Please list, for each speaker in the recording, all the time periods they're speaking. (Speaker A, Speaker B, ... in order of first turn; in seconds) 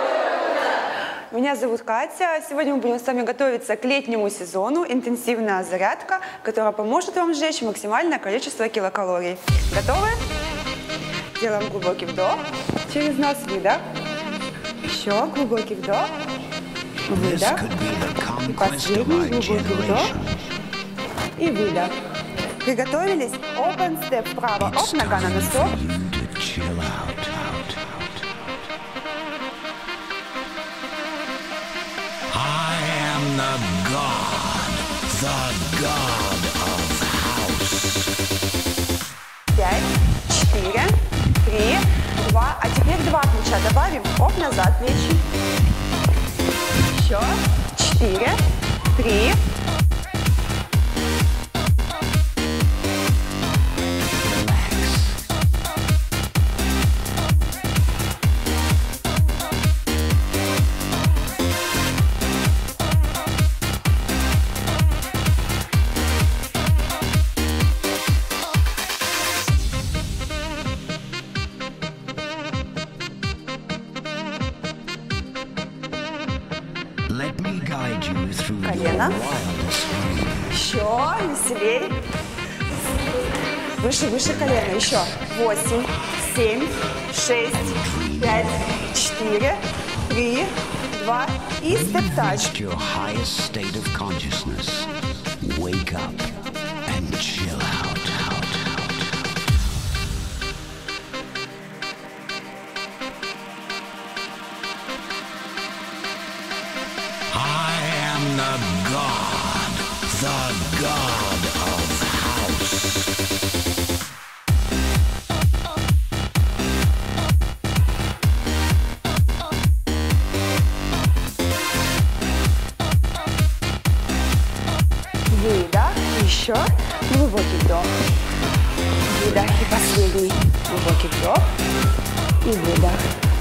Speaker A: 1.3-10.2, 11.4-13.8, 14.9-16.1, 17.1-17.7, 18.4-20.1, 21.4-21.9, 22.6-25.8, 39.5-45.2, 46.9-48.4, 48.9-49.4, 78.6-79.2, 80.5-82.0, 83.8-92.5, 125.3-127.9, 129.1-131.4, 132.4-133.0
Speaker B: 17.1-20.4, 24.6-28.2, 32.3-38.1, 54.2-55.2, 77.1-80.5, 87.5-88.8, 91.7-96.3, 96.9-99.2, 107.3-113.2